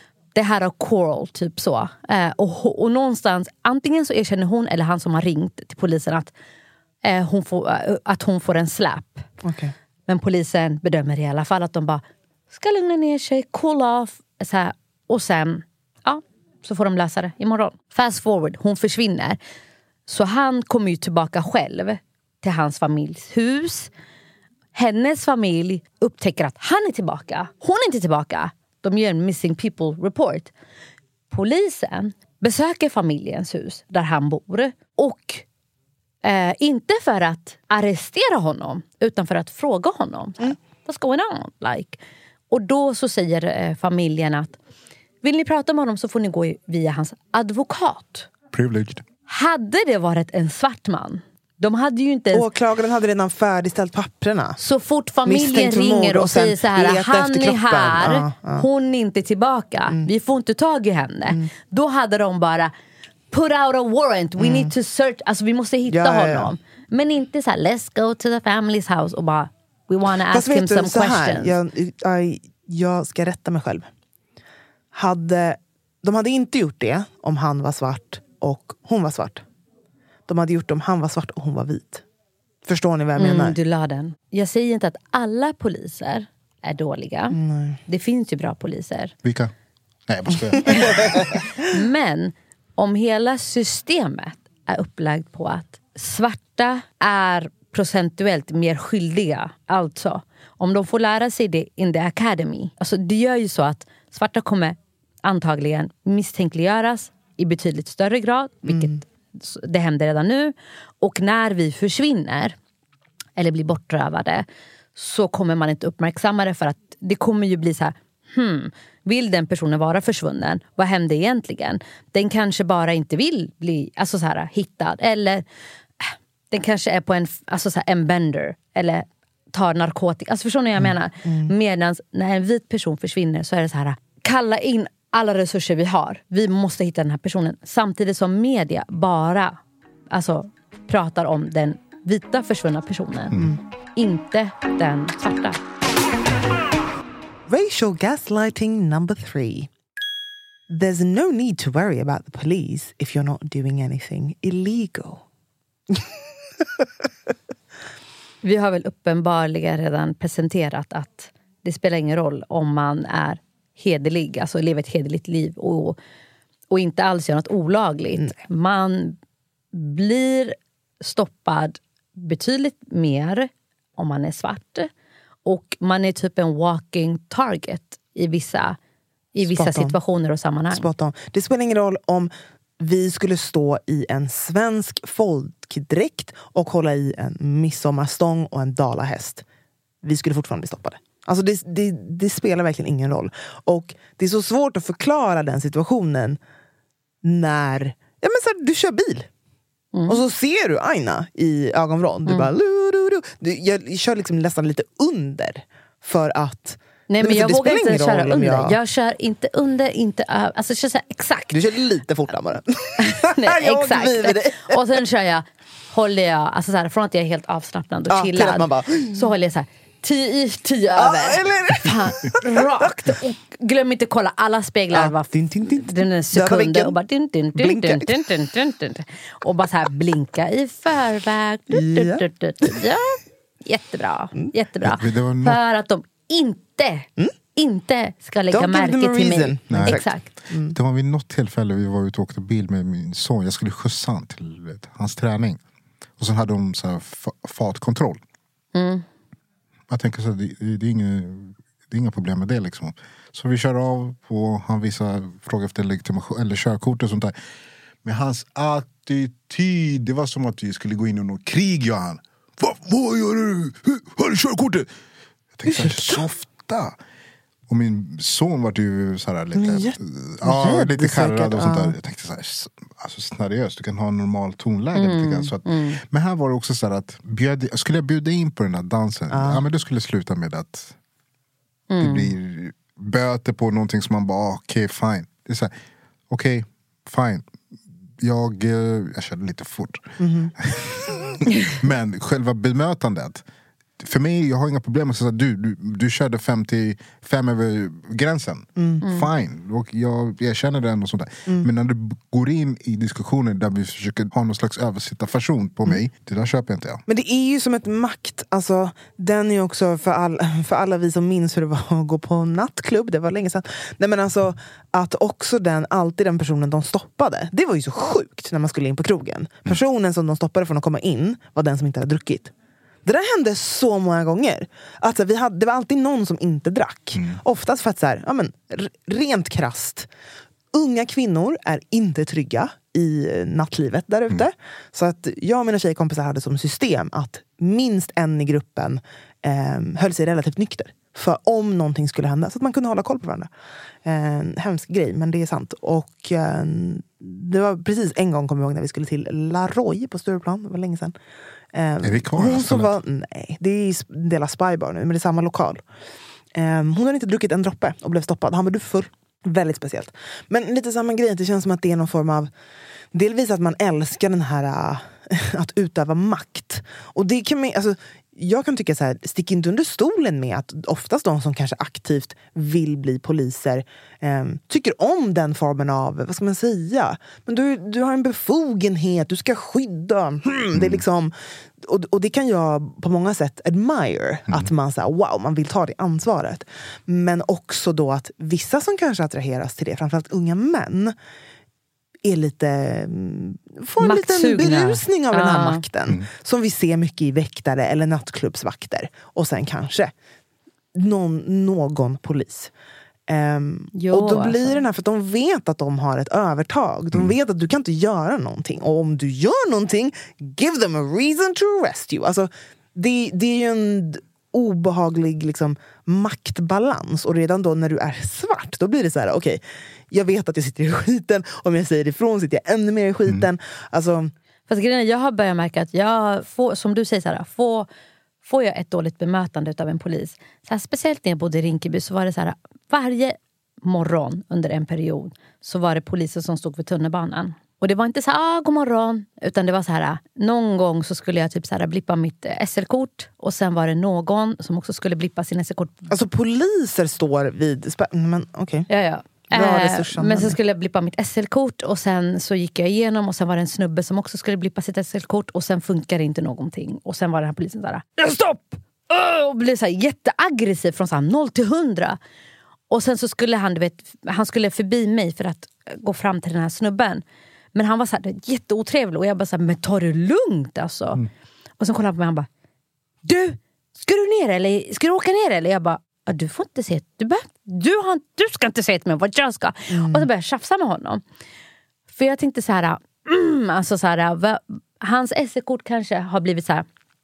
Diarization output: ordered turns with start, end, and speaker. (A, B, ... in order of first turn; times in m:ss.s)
0:00.4-0:06.3 A
0:07.0-0:09.3 A
0:09.4-0:09.7 B
0:10.1-0:19.4 A
0:20.1-0:23.9 A
0:24.7-0:30.5 A
0:31.3-0:35.4 A
0:36.2-0:42.0 A
0:42.5-0:44.5 A
0:45.2-0:48.3 A
0:48.5-0:49.0 C
0:49.3-0:52.5 A
0:52.3-0:54.6 B
0:54.6-1:02.7 A
0:55.2-0:58.6 B
1:03.3-1:11.6 A
1:04.4-1:04.7 B
1:05.9-1:06.5 B
1:10.3-1:13.9 B
1:14.9-1:19.4 B
1:20.3-1:22.0 B
1:22.6-1:23.6 B
1:23.2-1:29.1 A
1:27.3-1:27.8 B
1:29.2-1:29.5 C
1:30.1-1:31.4 C
1:31.6-1:52.5 A
1:48.6-1:49.0 B
1:53.4-2:05.4 A
2:06.0-2:19.6 A
2:11.2-2:11.5 B
2:20.1-2:23.4 A
2:23.3-2:23.6 C
2:24.0-2:25.6 A
2:27.5-2:29.7 B
2:30.7-2:35.2 B
2:38.4-2:46.0 A
2:46.7-2:49.2 A
2:49.7-2:54.9 A
2:55.4-2:58.8 A
2:59.3-3:00.9 A
2:59.4-3:00.0 B
3:00.7-3:09.4 B
3:10.0-3:16.4 B
3:17.2-3:19.3 B
3:19.9-3:20.2 A
3:20.1-3:28.8 B
3:27.1-3:31.7 A
3:31.5-3:34.8 B
3:33.0-4:00.2 A
3:38.1-3:39.3 B
3:40.9-3:42.9 B
3:44.9-3:46.9 B
3:47.5-3:48.2 B
3:51.7-3:52.8 B
3:54.8-3:55.6 C
3:58.5-4:00.7 B
3:59.7-4:00.1 C
4:00.7-4:05.6 C
4:06.2-4:08.2 C
4:08.7-4:09.0 A
4:09.9-4:17.3 C
4:18.0-4:24.9 C
4:25.5-4:27.0 C
4:25.6-4:26.2 B
4:27.7-4:40.9 C
4:29.5-4:31.9 B
4:34.9-4:36.0 A
4:39.3-4:39.6 B
4:41.9-4:42.3 A
4:42.0-4:45.7 C
4:46.3-4:47.4 C
4:48.2-4:53.4 C
4:50.2-4:50.5 B
4:54.0-5:07.0 C
4:58.8-4:59.0 B
4:59.0-4:59.3 A
5:07.1-5:22.5 B
5:23.0-5:30.1 B
5:30.7-5:43.5 B
5:44.0-5:51.1 B
5:51.7-5:55.8 B
5:52.0-5:53.0 C
5:56.5-6:02.5 B
6:03.1-6:31.1 B
6:20.7-6:21.0 C
6:32.2-6:40.1 B
6:34.0-6:35.8 A
6:40.9-6:42.7 B
6:43.3-7:04.3 B
6:43.9-6:44.8 A
7:04.7-7:07.9 A
7:08.4-7:26.1 A
7:26.1-7:28.9 B
7:28.9-7:42.2 A
7:29.5-7:30.6 B
7:42.9-7:47.2 A
7:47.7-7:51.2 A
7:51.8-7:52.5 A
7:53.2-8:01.2 A
7:59.9-8:00.3 B
8:02.1-8:06.8 A